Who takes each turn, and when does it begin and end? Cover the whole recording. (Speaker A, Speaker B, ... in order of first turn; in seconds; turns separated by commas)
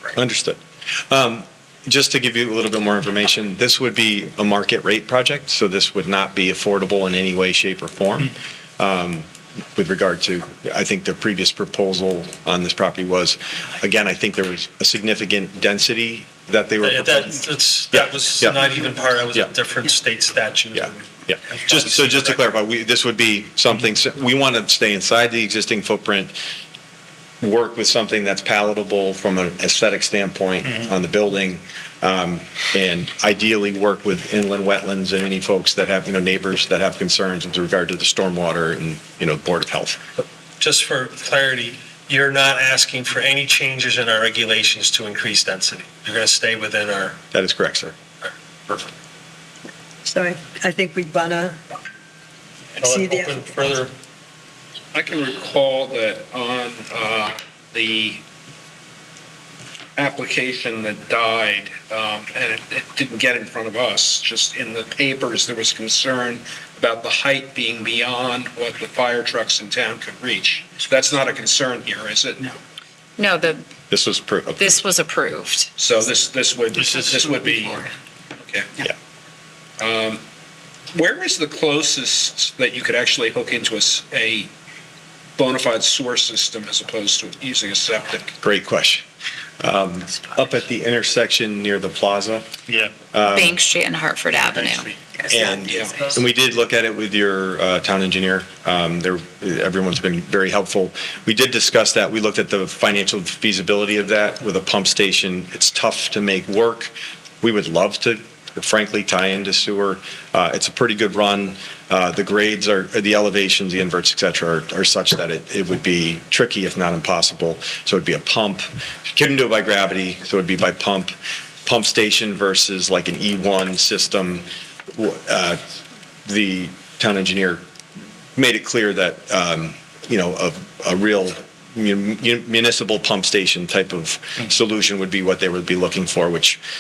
Speaker A: 0.1-18.7, Speaker B: 16.8-22.4, Speaker A: 20.8-26.4, Speaker A: 27.4-40.0, Speaker B: 40.6-47.2, Speaker A: 47.3-48.0, Speaker B: 48.2-48.8, Speaker C: 50.1-51.6, Speaker B: 52.8-53.9, Speaker C: 52.8-53.5, Speaker D: 54.9-58.2, Speaker D: 60.0-72.6, Speaker E: 73.2-73.6, Speaker A: 73.9-74.8, Speaker E: 74.6-75.7, Speaker D: 75.8-77.9, Speaker D: 78.5-78.8, Speaker D: 79.8-80.2, Speaker D: 80.9-84.5, Speaker D: 85.4-88.3, Speaker A: 88.4-89.0, Speaker A: 89.6-92.5, Speaker A: 93.1-93.5, Speaker E: 93.2-95.2, Speaker A: 95.3-121.1, Speaker D: 95.7-96.0, Speaker A: 121.6-125.6, Speaker A: 126.2-127.6, Speaker A: 128.4-136.6